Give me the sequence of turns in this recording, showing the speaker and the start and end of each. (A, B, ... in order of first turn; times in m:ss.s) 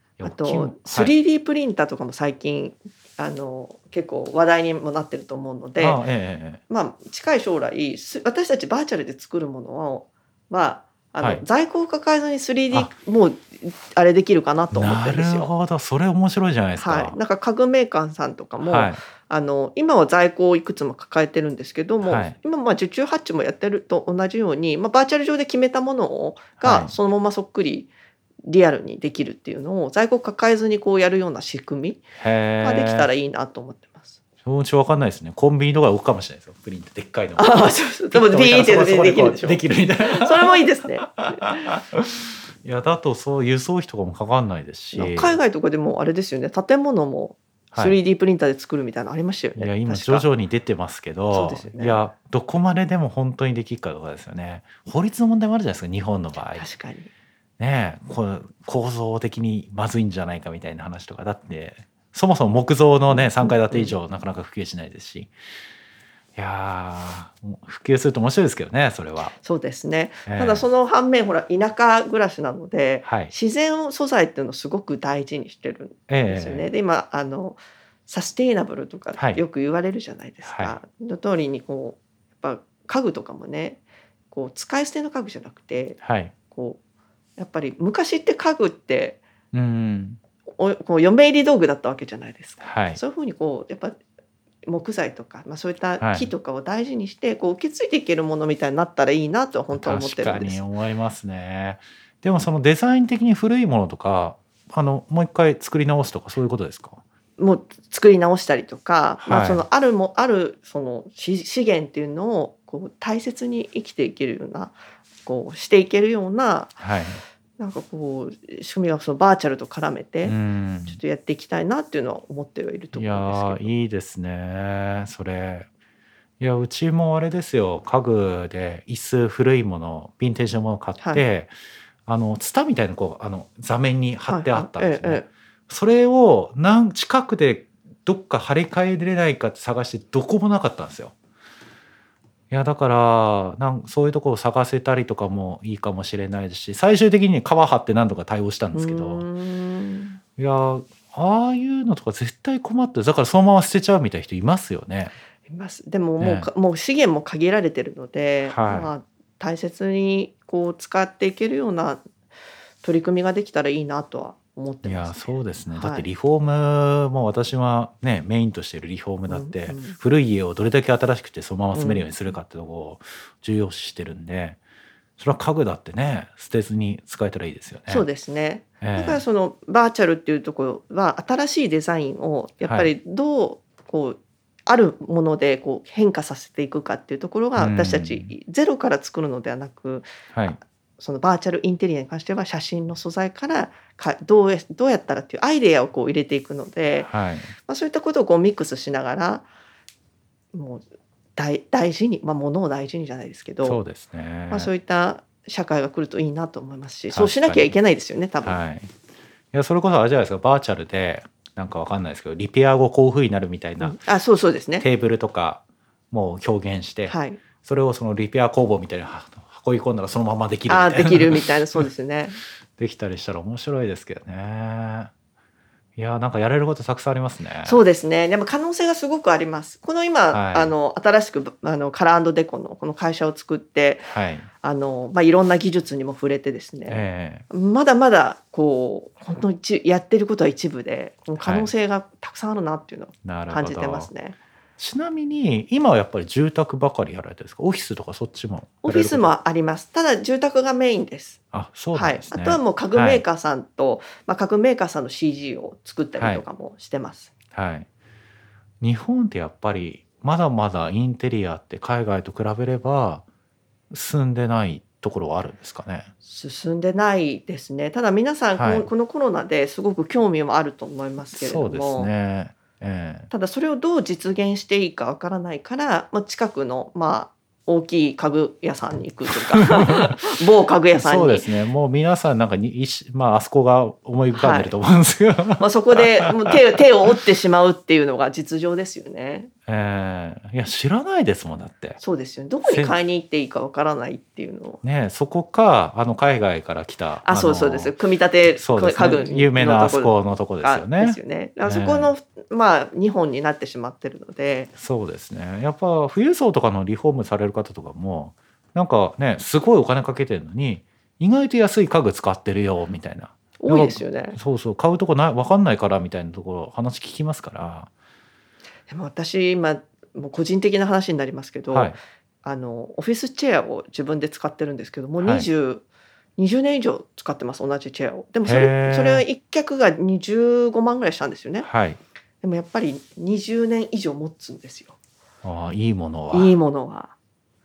0:00.2-0:01.2 A
0:00.2-0:06.0 B
0:05.8-0:06.6 A
0:06.7-0:15.5 B
0:11.2-0:11.4 A
0:14.7-0:17.2 A
0:16.8-0:27.9 B
0:18.6-0:19.0 A
0:22.0-0:22.4 A
0:26.6-0:27.0 A
0:28.4-0:32.0 B
0:32.2-0:33.1 A
0:32.6-0:34.2 B
0:34.4-0:45.4 A
0:37.4-0:41.6 B
0:44.9-0:50.3 B
0:49.6-0:56.7 A
0:51.3-0:52.0 B
0:56.6-0:57.1 B
0:57.6-1:05.3 A
1:03.1-1:04.0 B
1:06.4-1:09.3 A
1:09.3-1:26.8 B
1:10.3-1:10.7 A
1:13.0-1:13.3 A
1:16.1-1:16.7 A
1:19.2-1:19.4 A
1:20.4-1:20.8 A
1:26.0-1:26.3 A
1:27.4-1:29.2 B
1:29.5-1:30.2 A
1:30.5-1:34.0 B
1:32.6-1:33.0 A
1:34.7-1:40.6 B
1:36.0-1:36.3 A
1:39.7-1:47.0 A
1:47.4-1:56.8 B
1:49.2-1:49.7 A
1:56.8-1:57.2 A
1:57.6-2:03.7 B
2:00.2-2:01.0 A
2:02.9-2:05.7 A
2:06.4-2:11.6 A
2:12.1-2:21.1 A
2:14.3-2:15.3 B
2:22.5-2:29.3 A
2:28.7-2:30.2 B
2:30.4-2:35.2 A
2:35.5-2:42.0 B
2:36.2-2:36.5 A
2:38.4-2:38.9 A
2:42.8-2:46.1 B
2:44.8-2:54.6 A
2:49.3-2:50.0 B
2:51.7-2:52.1 B
2:55.2-2:58.1 A
2:57.9-3:10.1 B
2:58.8-2:59.2 A
3:02.6-3:02.9 A
3:07.6-3:08.3 A
3:10.3-3:10.6 A
3:11.0-3:17.1 B
3:17.0-3:17.5 A
3:17.6-3:19.5 B
3:20.5-3:20.8 B
3:21.4-3:23.8 B
3:23.6-3:24.7 A
3:24.5-3:28.6 B
3:27.1-3:27.8 A
3:28.4-3:28.9 A
3:29.5-3:34.0 A
3:33.8-3:34.9 B
3:34.8-3:41.8 A
3:37.1-3:37.4 B
3:40.7-3:42.4 B
3:42.8-3:45.1 A
3:46.0-3:47.8 A
3:47.6-3:54.1 B
3:50.3-3:50.7 A
3:54.0-3:54.5 A
3:54.6-4:04.4 B
3:56.9-3:57.5 A
4:01.4-4:01.7 A
4:03.2-4:04.1 A
4:04.8-4:09.3 A
4:08.8-4:11.4 B
4:11.5-4:13.2 A
4:11.9-4:17.3 B
4:16.2-4:16.4 A
4:17.5-4:17.9 A
4:18.8-4:23.2 A
4:23.9-4:26.1 A
4:26.2-4:32.1 B
4:28.6-4:28.9 A
4:31.3-4:33.3 A
4:33.3-4:41.5 B
4:39.3-4:40.2 A
4:40.9-4:46.3 A
4:44.3-4:44.8 B
4:45.6-4:49.5 B
4:49.7-4:52.0 A
4:52.0-4:54.8 B
4:52.6-4:53.0 A
4:54.8-4:58.0 A
4:57.2-5:04.7 B
4:58.6-5:02.1 A
5:04.8-5:17.9 A
5:13.6-5:14.4 B
5:18.9-5:25.8 B
5:21.7-5:22.0 A
5:25.2-5:25.5 A
5:26.4-5:31.7 B
5:28.4-5:29.2 A
5:31.6-5:32.0 A
5:32.4-5:35.0 B
5:35.4-5:36.6 A
5:36.3-5:37.1 B